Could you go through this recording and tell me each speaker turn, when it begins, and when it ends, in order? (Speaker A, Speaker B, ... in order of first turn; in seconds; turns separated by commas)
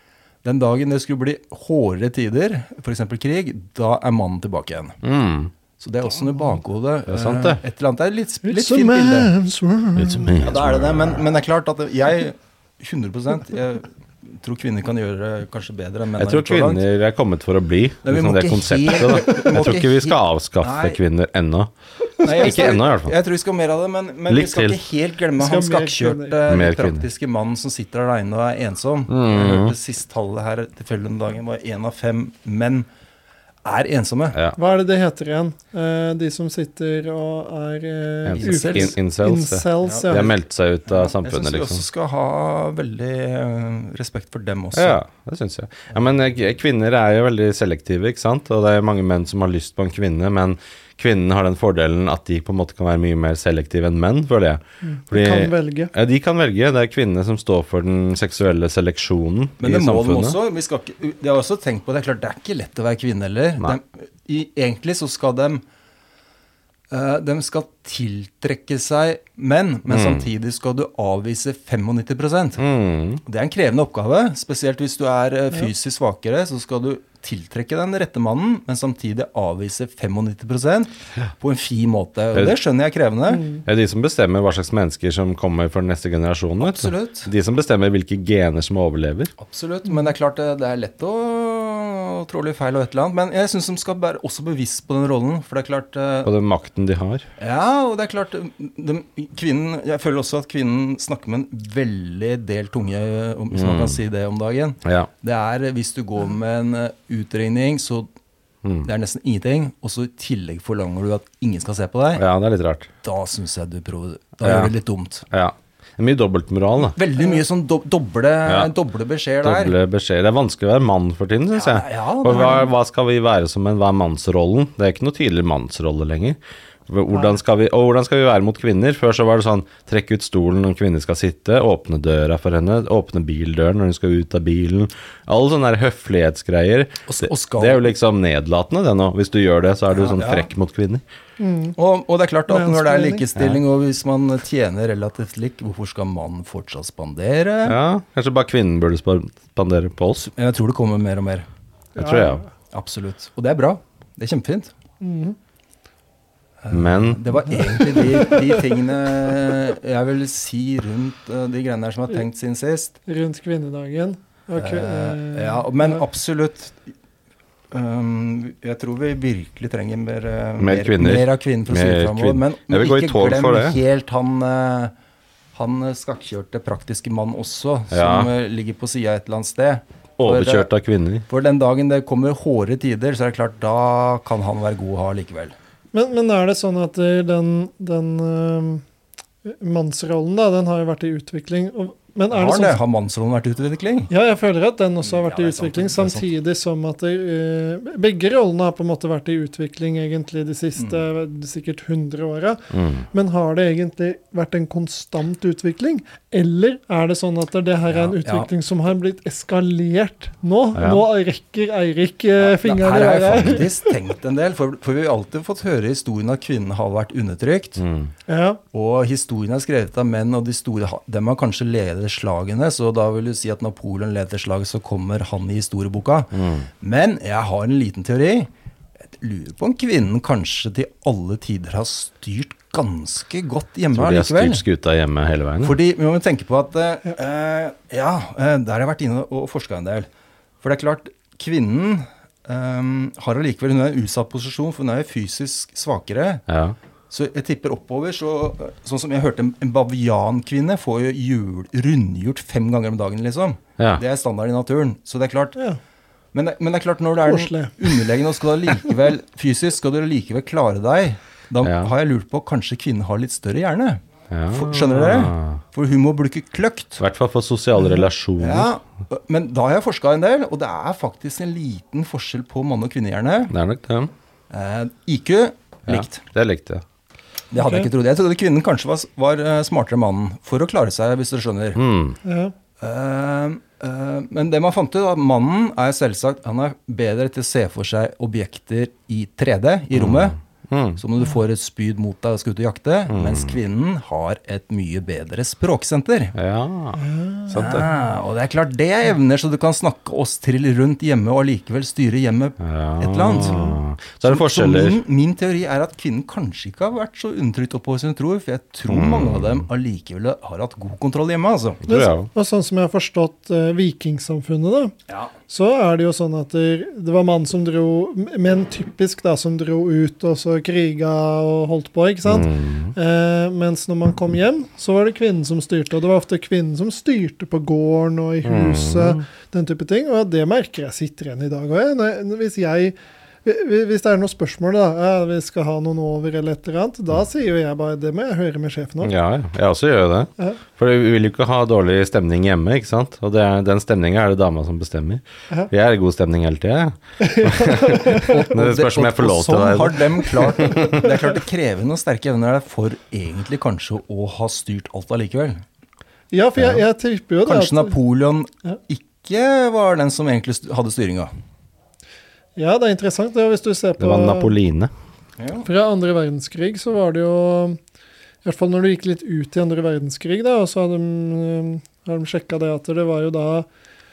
Speaker A: 0.4-5.0, Speaker B: 5.0-5.5, Speaker A: 5.8-9.3, Speaker B: 7.1-7.6, Speaker C: 8.4-10.4, Speaker B: 9.9-11.2, Speaker A: 10.3-16.8, Speaker B: 16.2-21.7, Speaker A: 18.0-21.0, Speaker A: 22.2-32.9, Speaker B: 22.3-23.1, Speaker B: 24.3-24.8, Speaker C: 25.4-26.4, Speaker B: 26.4-27.0, Speaker B: 29.1-29.7, Speaker A: 33.6-34.4, Speaker C: 34.5-40.3, Speaker B: 38.2-41.8, Speaker A: 38.4-38.9, Speaker A: 40.9-45.0, Speaker B: 44.7-60.4, Speaker C: 54.8-55.9, Speaker A: 59.6-65.6, Speaker A: 66.9-72.6, Speaker B: 69.9-70.2, Speaker B: 72.6-73.2, Speaker A: 73.2-83.5, Speaker C: 83.3-83.6, Speaker B: 83.7-89.3, Speaker A: 86.6-87.3, Speaker A: 89.4-96.3, Speaker B: 96.2-97.2, Speaker A: 97.4-108.1, Speaker B: 103.5-104.0, Speaker A: 108.8-112.2, Speaker B: 112.2-112.9, Speaker A: 113.0-115.2, Speaker B: 114.4-114.7, Speaker B: 115.3-117.0, Speaker A: 116.8-119.8, Speaker B: 118.5-118.7, Speaker B: 119.4-141.0, Speaker A: 121.5-122.7, Speaker A: 137.1-137.9, Speaker A: 139.9-140.5, Speaker C: 141.4-141.8, Speaker A: 141.8-147.8, Speaker C: 142.5-143.2, Speaker B: 143.4-143.6, Speaker B: 147.6-150.3, Speaker A: 150.3-151.4, Speaker C: 151.9-152.5, Speaker B: 152.0-152.4, Speaker A: 152.7-154.7, Speaker C: 155.0-155.4, Speaker A: 156.6-163.0, Speaker B: 156.7-157.2, Speaker C: 157.9-158.6, Speaker C: 163.1-166.0, Speaker A: 164.6-166.8, Speaker A: 167.7-174.9, Speaker B: 170.6-173.8, Speaker A: 175.5-180.7, Speaker B: 177.9-178.3, Speaker B: 180.2-181.2, Speaker A: 181.3-185.5, Speaker C: 185.9-188.8, Speaker C: 189.4-192.8, Speaker A: 192.3-194.1, Speaker C: 194.1-213.9, Speaker A: 195.0-196.3, Speaker A: 200.8-201.0, Speaker B: 202.7-203.0, Speaker A: 207.9-208.5, Speaker B: 210.7-211.1, Speaker A: 212.4-217.8, Speaker B: 217.8-218.1, Speaker C: 218.3-218.6, Speaker A: 218.7-228.5, Speaker B: 226.3-226.7, Speaker A: 229.2-234.6, Speaker B: 233.9-235.8, Speaker A: 235.6-240.1, Speaker A: 240.6-246.4, Speaker B: 246.5-246.8, Speaker A: 247.1-255.6, Speaker A: 256.3-267.0, Speaker C: 257.3-258.1, Speaker B: 261.6-261.9, Speaker B: 264.3-265.6, Speaker B: 267.0-268.7, Speaker A: 268.4-273.5, Speaker B: 273.5-274.1, Speaker A: 274.5-276.2, Speaker B: 275.9-276.8, Speaker A: 277.5-281.8, Speaker C: 277.6-277.9, Speaker B: 281.8-282.2, Speaker C: 282.2-282.5, Speaker A: 282.8-290.4, Speaker B: 289.9-291.0, Speaker A: 291.0-296.3, Speaker B: 293.1-293.6, Speaker B: 296.3-297.9, Speaker C: 297.0-297.8, Speaker A: 297.5-311.8, Speaker B: 302.6-305.0, Speaker C: 303.4-303.7, Speaker B: 308.9-309.6, Speaker B: 311.9-312.3, Speaker C: 311.9-314.9, Speaker C: 315.5-339.1, Speaker B: 322.2-322.9, Speaker B: 328.4-329.2, Speaker B: 339.0-351.1, Speaker C: 347.2-348.5, Speaker A: 348.3-355.6, Speaker C: 356.3-357.9, Speaker A: 357.4-361.3, Speaker C: 362.6-364.5, Speaker B: 364.0-364.9, Speaker A: 365.4-365.7, Speaker C: 365.6-367.8, Speaker C: 368.4-373.7